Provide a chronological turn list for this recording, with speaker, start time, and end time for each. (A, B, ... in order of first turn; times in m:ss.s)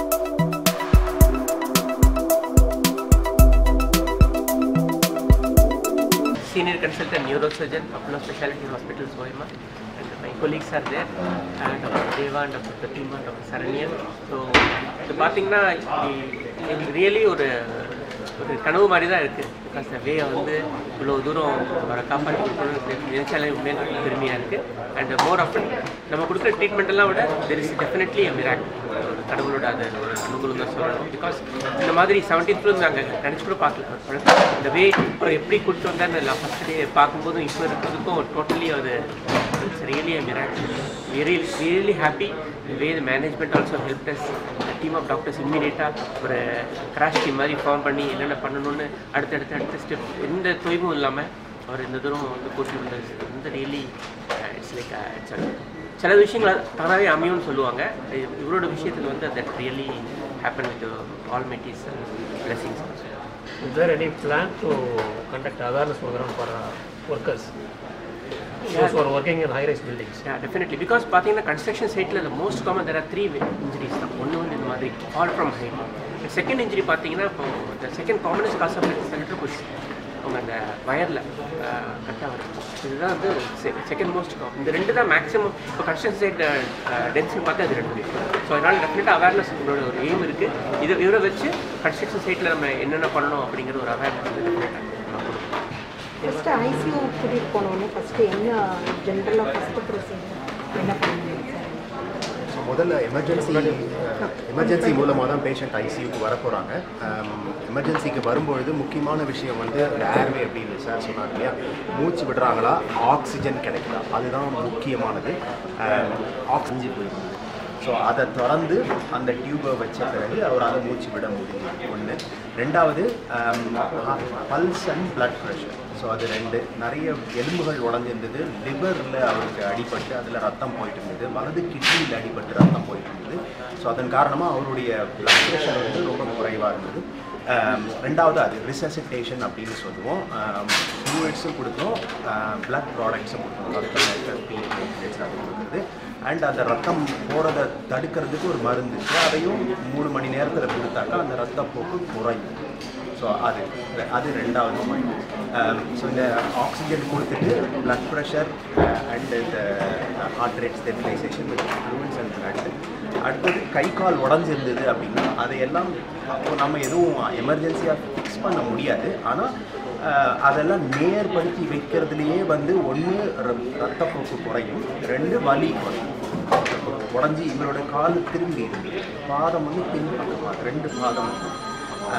0:06.4-0:39.0 A
0:39.6-1:03.1 A
1:03.6-1:07.5 B
1:08.6-1:09.0 A
1:08.6-1:10.2 B
1:10.2-1:35.4 A
1:36.2-1:41.9 C
1:42.6-2:32.6 D
1:44.2-1:45.1 C
2:33.2-2:42.7 D
2:43.2-2:49.5 D
2:50.0-3:01.6 D